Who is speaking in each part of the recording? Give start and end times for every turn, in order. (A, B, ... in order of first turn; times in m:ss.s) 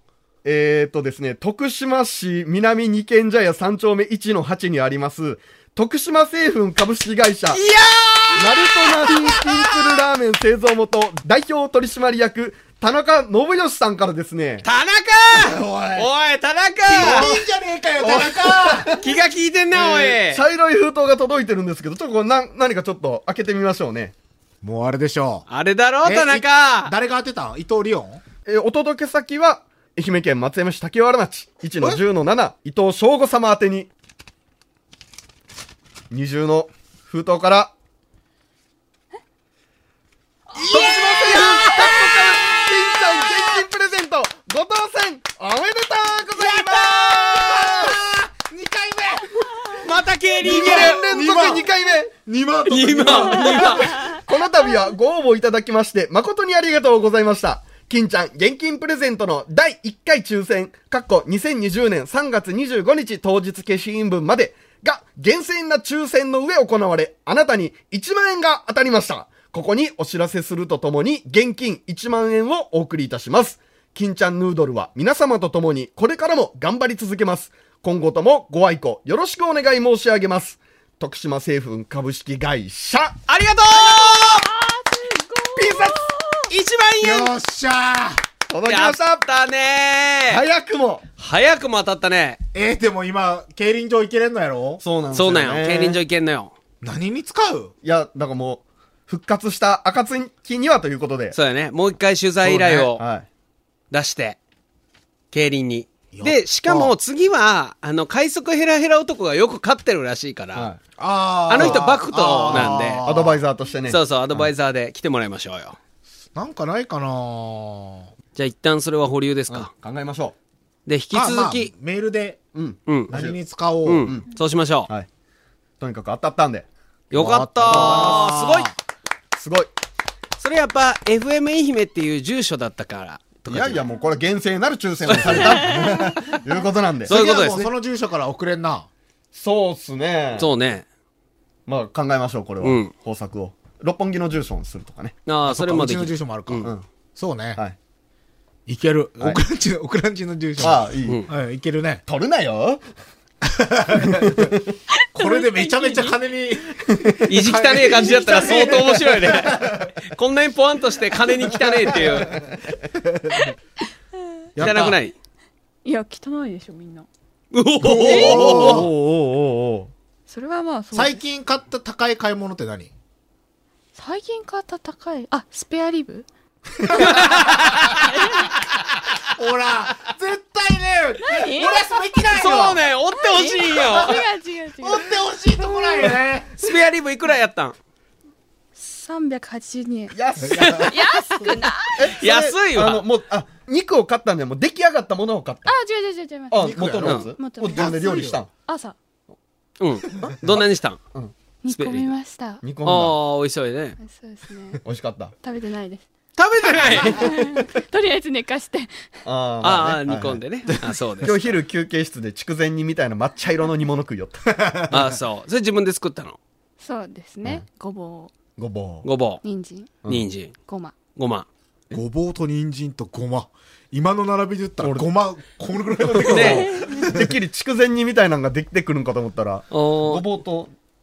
0:00.4-0:07.6 A
0:07.5-0:10.0 B
0:08.4-0:14.6 A
0:14.6-0:17.3 B
0:15.4-0:16.1 A
0:16.9-0:18.9 C
0:17.0-0:17.4 A
0:18.0-0:19.1 A
0:18.9-0:20.4 B
0:19.7-0:24.1 A
0:24.6-0:25.4 C
0:25.5-0:26.9 B
0:26.0-0:28.2 C
0:28.4-0:33.9 A
0:36.1-0:37.7 A
0:40.5-0:43.0 D
0:40.5-0:48.0 A
0:40.7-0:41.6 C
0:46.4-0:49.9 C
0:49.7-0:51.1 B
0:50.4-0:51.7 C
0:50.4-0:52.2 A
0:52.2-0:54.1 C
0:52.7-0:54.2 B
0:52.9-1:23.2 A
1:23.3-1:24.4 B
1:23.7-1:26.5 D
1:25.6-1:26.0 A
1:26.5-1:27.3 B
1:27.0-1:28.2 C
1:28.5-1:29.2 A
1:28.7-1:30.4 B
1:30.3-1:31.0 A
1:31.2-1:32.4 B
1:32.5-1:34.8 C
1:34.8-1:36.0 A
1:35.1-1:36.5 B
1:36.8-1:37.7 C
1:37.8-1:41.4 A
1:41.3-1:43.0 B
1:42.4-1:42.9 C
1:42.9-1:43.2 A
1:43.9-1:44.4 B
1:45.3-1:50.7 B
1:46.1-1:46.9 C
1:50.5-1:50.8 A
1:51.0-1:53.4 C
1:51.5-1:53.0 B
1:51.5-1:54.5 A
1:53.9-1:55.8 B
1:56.4-1:58.1 C
1:58.4-1:59.7 B
1:59.5-2:00.4 A
2:00.9-2:01.7 B
2:01.1-2:02.4 C
2:02.5-2:03.4 A
2:02.9-2:03.1 B
2:03.1-2:04.1 C
2:03.8-2:04.9 B
2:05.8-2:06.7 A
2:07.1-2:08.7 B
2:07.1-2:08.8 C
2:07.6-2:08.3 A
2:09.4-2:09.7 A
2:10.4-2:13.8 B
2:13.5-2:17.2 A
2:15.1-2:15.9 B
2:15.6-2:16.0 D
2:17.1-2:17.7 B
2:17.1-2:18.9 C
2:19.3-2:20.5 A
2:20.4-2:20.8 B
2:21.7-2:25.2 A
2:22.6-2:22.9 B
2:25.2-2:26.7 B
2:25.5-2:27.6 C
2:28.7-2:32.0 C
2:30.6-2:31.2 A
2:32.0-2:32.8 A
2:33.4-2:34.5 C
2:34.0-2:34.7 A
2:34.9-2:36.2 D
2:35.1-2:39.9 C
2:36.9-2:37.3 A
2:37.3-2:42.5 B
2:38.0-2:39.0 D
2:41.5-2:43.3 C
2:44.6-2:45.0 C
2:44.6-2:45.1 B
2:45.8-2:47.1 D
2:47.5-2:48.9 B
2:47.8-2:49.9 A
2:48.0-2:48.9 C
2:48.0-2:48.6 D
2:50.3-2:51.2 D
2:50.9-2:52.9 C
2:53.9-2:56.3 D
2:56.9-2:58.5 B
2:57.0-2:57.4 C
2:58.0-2:58.5 D
2:59.3-3:02.8 C
3:01.3-3:01.8 D
3:02.2-3:04.2 B
3:03.2-3:06.2 D
3:03.7-3:04.2 C
3:04.8-3:06.5 C
3:06.6-3:07.8 B
3:08.8-3:12.1 D
3:10.1-3:11.0 A
3:10.4-3:11.5 C
3:11.9-3:15.7 A
3:12.2-3:13.0 B
3:15.6-3:16.7 D
3:16.5-3:18.5 A
3:16.6-3:18.4 C
3:17.4-3:19.0 D
3:19.8-3:21.0 B
3:20.2-3:21.3 A
3:21.6-3:22.6 D
3:21.7-3:22.1 B
3:22.6-3:23.2 A
3:22.8-3:24.0 B
3:24.0-3:24.8 D
3:24.8-3:25.3 A
3:25.4-3:26.1 D
3:26.4-3:27.3 B
3:26.9-3:27.6 A
3:27.0-3:28.9 D
3:29.2-3:30.4 A
3:29.6-3:31.5 B
3:31.2-3:34.6 A
3:34.5-3:35.0 C
3:34.9-3:36.4 B
3:36.8-3:38.3 D
3:38.6-3:39.1 A
3:39.0-3:39.4 B
3:39.4-3:39.9 D
3:40.0-3:40.5 B
3:40.7-3:40.9 D
3:41.1-3:41.5 B
3:41.9-3:47.4 C
3:44.8-3:45.1 A
3:46.0-3:50.7 A
3:46.2-3:46.7 B
3:46.6-3:47.1 D
3:49.7-3:50.2 B